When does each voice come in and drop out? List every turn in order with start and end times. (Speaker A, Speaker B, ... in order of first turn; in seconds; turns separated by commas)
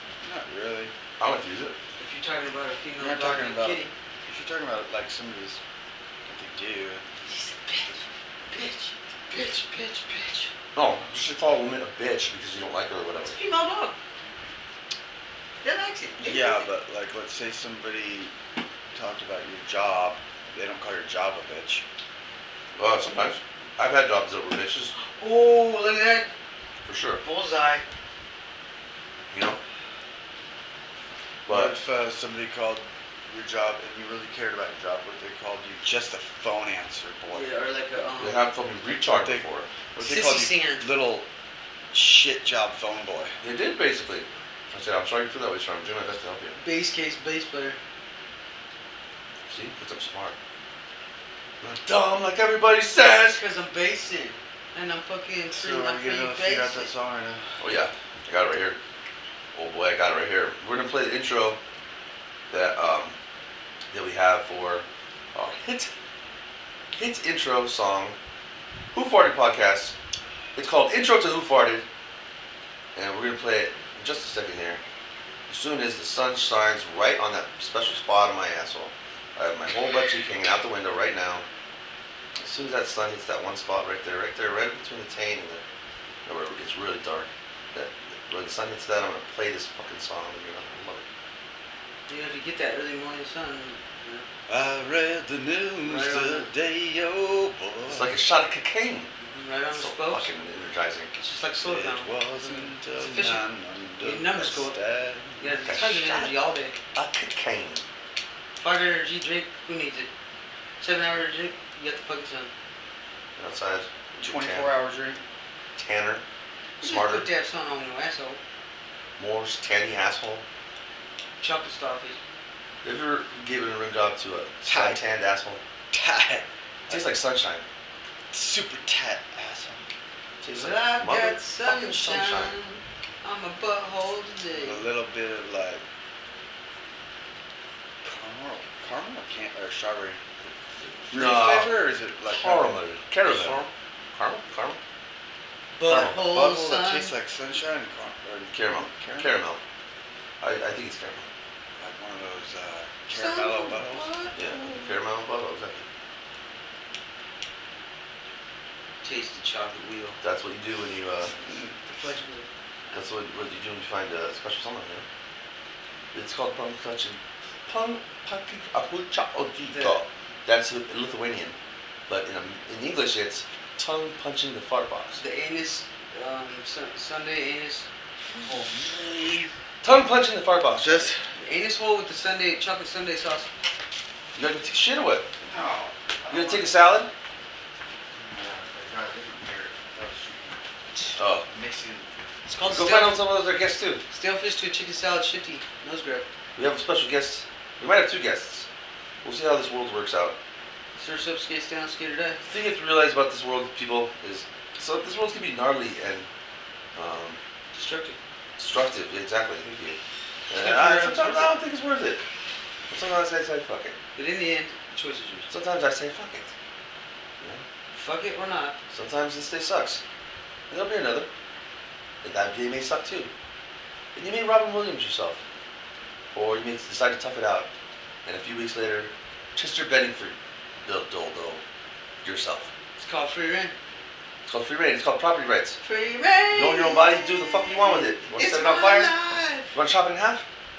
Speaker A: 0.2-0.9, Speaker B: 1.2-1.8, Speaker C: 2.0-3.9, Speaker A: 3.0-5.6, Speaker A: 6.2-7.0, Speaker C: 7.3-10.5, Speaker B: 10.8-13.4, Speaker C: 13.2-14.0, Speaker C: 15.6-16.7, Speaker A: 16.2-18.3, Speaker A: 18.9-21.8, Speaker B: 22.8-24.9, Speaker C: 24.9-26.3, Speaker B: 26.9-27.2, Speaker C: 27.2-27.8, Speaker B: 29.3-29.6, Speaker B: 31.5-31.8, Speaker A: 31.5-37.5, Speaker C: 37.3-38.5, Speaker B: 38.2-39.7, Speaker A: 39.0-41.3, Speaker C: 40.0-40.8, Speaker A: 41.9-43.4, Speaker B: 43.4-46.6, Speaker C: 46.6-47.8, Speaker B: 49.5-50.4, Speaker B: 51.6-53.4, Speaker C: 53.3-56.9, Speaker A: 55.5-57.6, Speaker B: 57.6-58.8, Speaker B: 59.5-61.6, Speaker B: 62.5-63.1, Speaker B: 63.9-65.9, Speaker B: 66.9-68.2, Speaker B: 68.9-70.0, Speaker B: 70.5-71.8, Speaker B: 73.0-74.8, Speaker B: 75.5-81.5, Speaker B: 82.4-85.6, Speaker B: 86.3-91.0, Speaker C: 92.1-94.3, Speaker A: 94.5-98.2, Speaker C: 95.8-96.5, Speaker B: 97.9-99.1, Speaker C: 99.2-100.3, Speaker B: 99.7-101.1, Speaker C: 101.2-103.5, Speaker A: 101.6-105.4, Speaker C: 104.0-104.8, Speaker C: 105.4-106.8, Speaker B: 105.6-106.3, Speaker B: 106.9-107.8, Speaker C: 108.6-110.1, Speaker C: 110.8-112.5, Speaker B: 113.4-114.7, Speaker A: 114.2-115.2, Speaker B: 115.8-116.2, Speaker B: 116.8-117.3, Speaker C: 116.8-118.4, Speaker B: 119.2-120.4, Speaker C: 121.4-122.2, Speaker B: 122.8-125.6, Speaker A: 124.7-125.0, Speaker A: 125.9-127.1, Speaker B: 126.9-127.6, Speaker A: 128.3-129.9, Speaker B: 130.4-132.5, Speaker C: 130.5-134.9, Speaker A: 134.6-135.8, Speaker A: 138.0-140.2, Speaker A: 141.1-143.7, Speaker B: 141.1-144.8, Speaker C: 145.8-147.1, Speaker B: 145.9-146.2, Speaker A: 146.2-149.3, Speaker B: 148.5-149.6, Speaker B: 150.4-151.3, Speaker A: 151.8-154.1, Speaker C: 153.1-155.0, Speaker B: 154.3-155.8, Speaker C: 159.0-160.2, Speaker B: 160.2-161.3, Speaker C: 161.8-162.5, Speaker B: 162.9-165.1, Speaker B: 166.1-171.6, Speaker C: 169.7-170.0, Speaker B: 172.1-175.2, Speaker C: 175.1-177.9, Speaker A: 178.5-179.1, Speaker B: 179.8-181.2, Speaker A: 180.7-181.2, Speaker C: 181.4-183.5, Speaker B: 184.3-185.3, Speaker A: 185.4-186.7, Speaker B: 186.3-187.1, Speaker A: 188.1-190.6, Speaker B: 191.2-191.5, Speaker A: 191.5-192.2, Speaker C: 192.5-193.2, Speaker B: 192.7-194.0, Speaker C: 194.1-196.3, Speaker B: 196.6-198.7, Speaker B: 199.2-200.4, Speaker C: 201.0-202.4, Speaker B: 202.4-206.3, Speaker B: 206.9-207.4, Speaker C: 207.7-208.2, Speaker B: 208.6-212.2, Speaker C: 210.5-211.5, Speaker B: 212.9-214.0, Speaker C: 214.2-215.5, Speaker B: 215.5-216.5, Speaker C: 217.9-218.8, Speaker B: 218.9-220.0, Speaker B: 220.7-221.3, Speaker B: 222.2-223.3, Speaker B: 224.2-225.4, Speaker B: 226.3-227.7, Speaker B: 228.2-231.6, Speaker B: 232.2-232.7, Speaker C: 233.0-233.8, Speaker B: 234.5-235.8, Speaker C: 235.8-239.7, Speaker B: 236.5-239.1, Speaker B: 239.7-240.4